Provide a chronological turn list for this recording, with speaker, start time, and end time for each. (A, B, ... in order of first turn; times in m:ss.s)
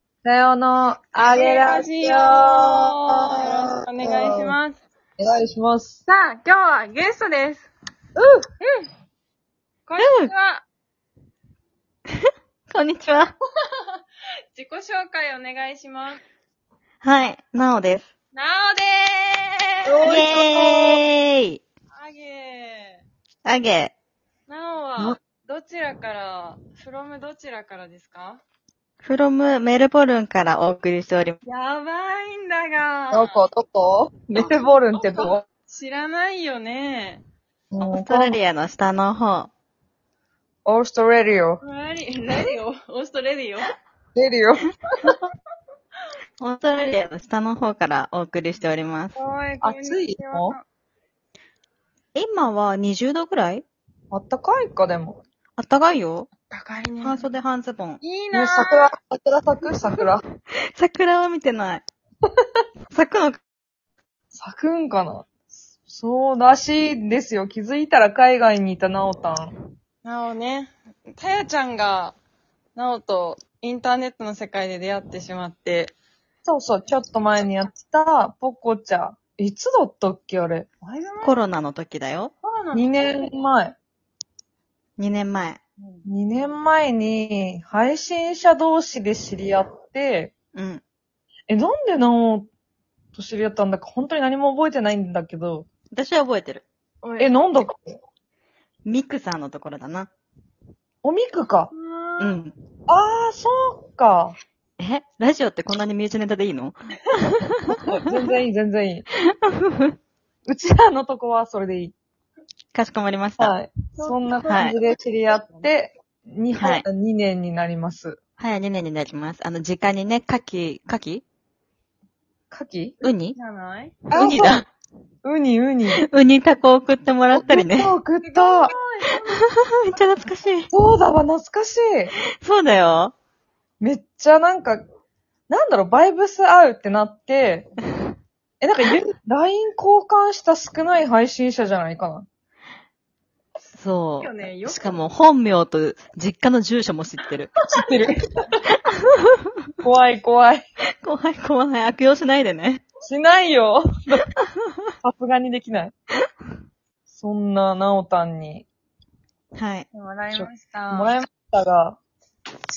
0:00.2-0:03.5 A
0:01.2-0:04.8 B
0:04.0-0:04.6 A
0:05.2-0:06.0 A
0:06.1-0:07.7 B
0:08.2-0:08.4 A
0:08.6-0:08.9 B
0:09.9-0:10.6 B
0:10.0-0:10.3 C
0:12.7-0:13.3 C
0:14.5-0:16.2 B
0:17.0-0:18.0 C
0:18.3-0:20.3 B
0:19.9-0:20.9 A
0:20.0-0:21.6 C
0:21.9-0:23.0 B
0:23.4-0:23.9 C
0:24.5-0:28.4 B
0:29.0-0:31.4 C
0:31.4-0:33.3 B
0:33.1-0:35.4 A
0:35.0-0:37.2 B
0:37.7-0:38.4 A
0:37.8-0:39.5 C
0:40.6-0:41.6 A
0:41.6-0:43.7 B
0:44.2-0:45.1 A
0:46.4-0:49.2 C
0:49.2-0:50.6 B
0:49.6-0:50.6 A
0:52.2-0:53.6 C
0:54.1-0:55.2 A
0:55.6-0:56.3 C
0:56.5-0:57.2 B
0:57.0-0:58.0 C
0:58.0-0:58.9 B
0:58.3-1:00.2 A
1:00.8-1:01.8 C
1:02.9-1:03.4 C
1:04.3-1:05.3 A
1:05.9-1:09.5 A
1:10.0-1:12.2 B
1:12.8-1:15.9 B
1:16.4-1:20.7 A
1:20.8-1:21.4 B
1:21.2-1:22.3 C
1:22.4-1:23.1 B
1:22.7-1:23.8 A
1:25.0-1:25.6 C
1:25.8-1:26.1 B
1:26.1-1:30.3 A
1:30.5-1:30.8 C
1:31.5-1:32.5 A
1:33.1-1:35.7 A
1:35.9-1:36.6 C
1:37.0-1:37.5 B
1:37.2-1:38.0 A
1:38.9-1:40.1 C
1:41.0-1:41.7 A
1:41.7-1:42.4 B
1:42.2-1:42.6 C
1:42.9-1:44.4 A
1:44.8-1:47.7 C
1:47.7-1:49.1 A
1:49.3-1:50.0 C
1:50.5-1:52.0 A
1:52.7-1:53.6 C
1:53.4-1:58.2 A
1:54.0-1:54.7 B
1:54.5-1:54.8 C
1:55.3-1:55.7 B
1:56.6-1:56.8 C
1:58.4-2:01.2 C
2:02.5-2:03.0 A
2:03.0-2:03.4 C
2:03.4-2:04.0 B
2:04.1-2:04.6 A
2:04.1-2:04.7 C
2:05.2-2:06.0 A
2:05.9-2:07.9 C
2:07.3-2:08.7 A
2:08.2-2:09.4 B
2:09.8-2:10.7 C
2:10.7-2:12.1 A
2:12.2-2:13.1 C
2:13.8-2:14.8 A
2:15.5-2:17.7 A
2:18.6-2:22.3 A
2:23.8-2:27.5 C
2:24.2-2:25.0 B
2:27.7-2:28.2 A
2:29.8-2:30.6 A
2:31.0-2:32.8 C
2:33.1-2:34.3 A
2:35.0-2:35.9 A
2:37.1-2:38.7 A
2:39.6-2:39.9 C
2:39.9-2:41.2 B
2:40.3-2:42.0 A